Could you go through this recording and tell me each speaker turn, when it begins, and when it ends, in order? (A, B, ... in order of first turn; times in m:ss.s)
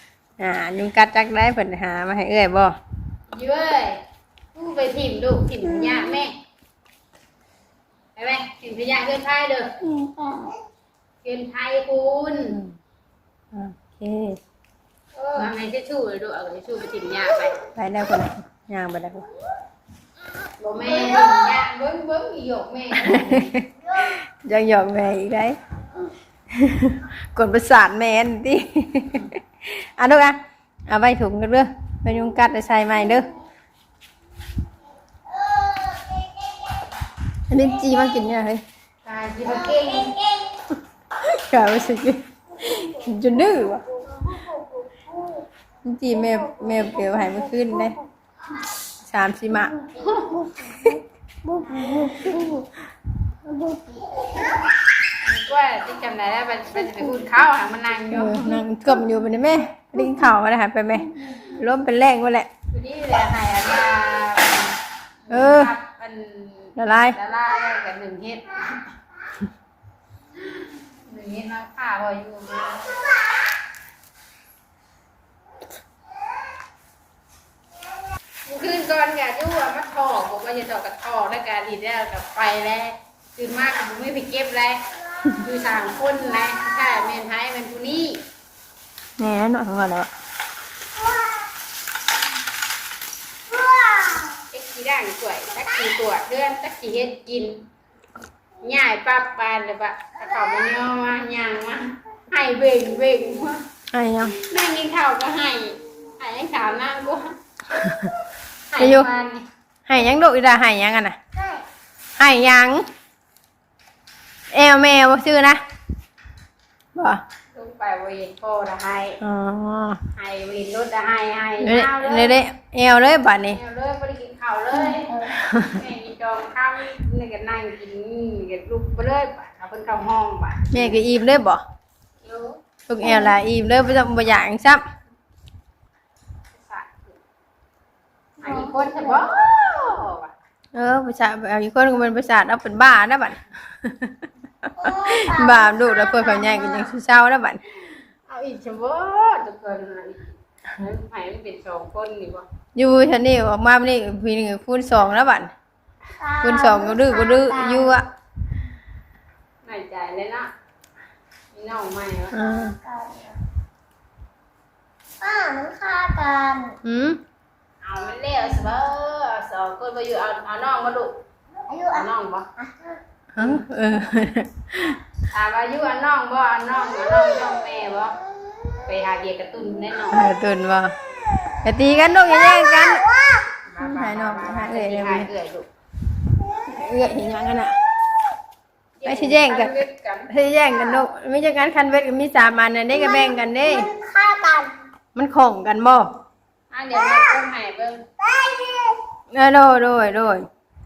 0:00.4-0:02.8 A
0:03.3-0:04.0 B
0:04.5-0:06.4 B
0:08.2-0:09.7 B
0:09.8-0:10.6 C
0:11.2-0:12.6 B
0:12.5-0:12.7 A
0:13.5-0:14.4 A
0:15.1-0:17.6 B
0:17.7-0:19.3 A
0:20.6-0:23.5 B
0:20.9-0:21.4 C
0:23.0-0:25.6 A
0:23.8-0:24.1 C
0:26.5-0:30.4 A
0:30.9-0:33.3 A
0:35.3-0:36.8 C
0:37.5-0:38.6 A
0:39.0-0:40.1 B
0:39.4-0:40.6 C
0:41.2-0:43.8 A
0:43.9-0:45.4 C
0:45.8-0:48.0 A
0:49.1-0:49.8 A
0:50.0-0:50.3 B
0:50.4-0:50.7 C
0:51.4-0:52.6 C
0:53.4-0:54.5 C
0:55.2-0:58.6 B
0:58.1-1:02.5 A
1:02.7-1:08.9 B
1:05.3-1:05.7 A
1:06.8-1:07.2 A
1:10.4-1:13.0 B
1:18.4-1:28.2 B
1:29.2-1:30.1 A
1:31.0-1:31.4 C
1:33.5-1:34.4 C
1:34.5-1:37.6 B
1:38.6-1:43.6 B
1:43.9-1:44.3 A
1:44.3-1:47.3 B
1:47.7-1:48.1 A
1:48.7-1:49.4 B
1:48.8-1:49.1 A
1:49.9-1:51.2 A
1:51.3-1:51.6 C
1:52.2-1:52.8 A
1:54.5-1:55.6 A
1:56.9-1:57.2 A
1:57.5-1:59.2 B
1:59.2-2:00.0 A
2:00.1-2:02.4 B
2:01.6-2:03.6 A
2:03.5-2:11.0 B
2:05.3-2:05.8 A
2:10.7-2:11.6 A
2:12.2-2:12.6 B
2:12.9-2:14.8 A
2:13.0-2:13.3 C
2:16.5-2:17.2 B
2:18.4-2:19.3 C
2:18.4-2:20.3 B
2:20.7-2:24.1 A
2:24.8-2:26.9 C
2:25.1-2:27.6 A
2:28.3-2:32.5 B
2:32.7-2:35.5 A
2:36.2-2:38.0 C
2:36.4-2:38.1 A
2:39.6-2:40.5 B
2:41.5-2:42.4 B
2:42.3-2:42.7 A
2:42.4-2:43.4 C
2:45.2-2:46.8 C
2:46.8-2:47.2 A
2:47.8-2:51.2 B
2:51.7-2:53.0 C
2:51.9-2:52.4 B
2:53.3-2:55.0 A
2:55.3-2:58.2 B
2:58.8-3:00.3 B
3:00.1-3:00.9 A
3:01.6-3:03.0 A
3:02.9-3:03.5 C
3:03.6-3:05.7 B
3:03.8-3:05.3 A
3:06.6-3:07.7 A
3:09.0-3:10.3 B
3:09.0-3:13.9 A
3:10.7-3:11.0 C
3:12.9-3:14.7 C
3:15.1-3:16.1 A
3:16.7-3:18.0 B
3:18.2-3:19.0 C
3:19.3-3:20.4 A